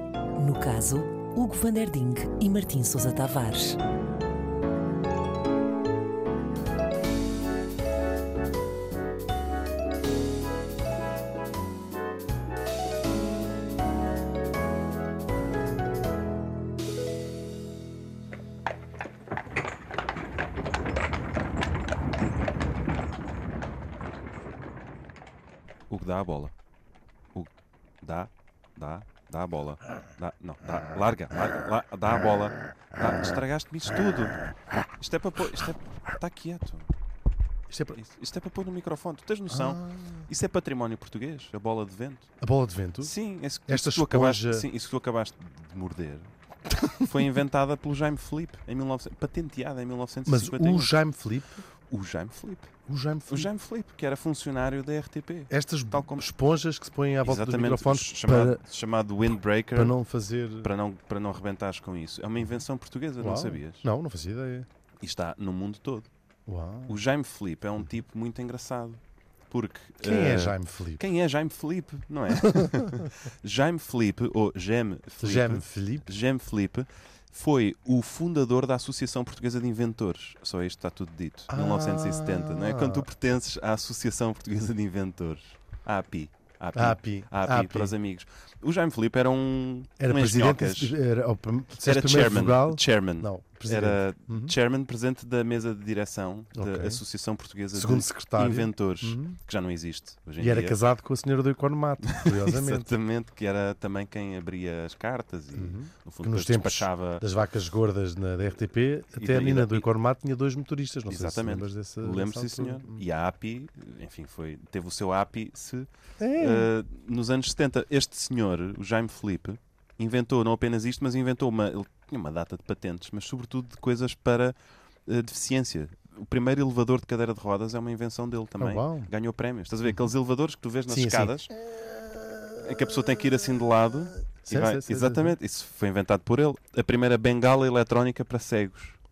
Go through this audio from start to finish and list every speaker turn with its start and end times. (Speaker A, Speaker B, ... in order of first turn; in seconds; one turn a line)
Speaker A: 0.4-3.8
Speaker B: 25.9-26.5
Speaker B: 28.0-34.4
Speaker B: 35.0-36.9
Speaker C: 37.7-38.0
Speaker B: 37.9-42.3
Speaker C: 39.5-40.2
Speaker C: 42.4-43.1
Speaker B: 43.0-46.3
Speaker C: 43.7-44.7
Speaker B: 46.9-51.0
Speaker C: 50.3-51.6
Speaker B: 51.9-52.7
Speaker C: 52.9-53.5
Speaker B: 53.3-56.3
Speaker C: 55.5-58.6
Speaker B: 57.2-60.0
Speaker C: 59.8-60.7
Speaker B: 60.6-63.9
Speaker C: 63.2-64.7
Speaker B: 65.0-66.1
Speaker C: 66.5-67.0
Speaker B: 66.9-91.0
Speaker C: 70.0-71.1
Speaker C: 72.4-73.1
Speaker C: 75.2-76.1
Speaker C: 81.5-83.1
Speaker C: 86.7-87.9
Speaker C: 90.0-94.5
Speaker B: 91.8-100.8
Speaker C: 96.5-97.0
Speaker C: 97.7-99.4
Speaker C: 100.4-102.9
Speaker B: 102.0-107.2
Speaker C: 105.5-113.0
Speaker B: 109.2-109.9
Speaker B: 111.1-124.6
Speaker C: 116.2-116.7
Speaker B: 125.1-131.5
Speaker C: 128.6-129.1
Speaker C: 130.9-133.7
Speaker B: 132.6-139.0
Speaker C: 134.3-135.4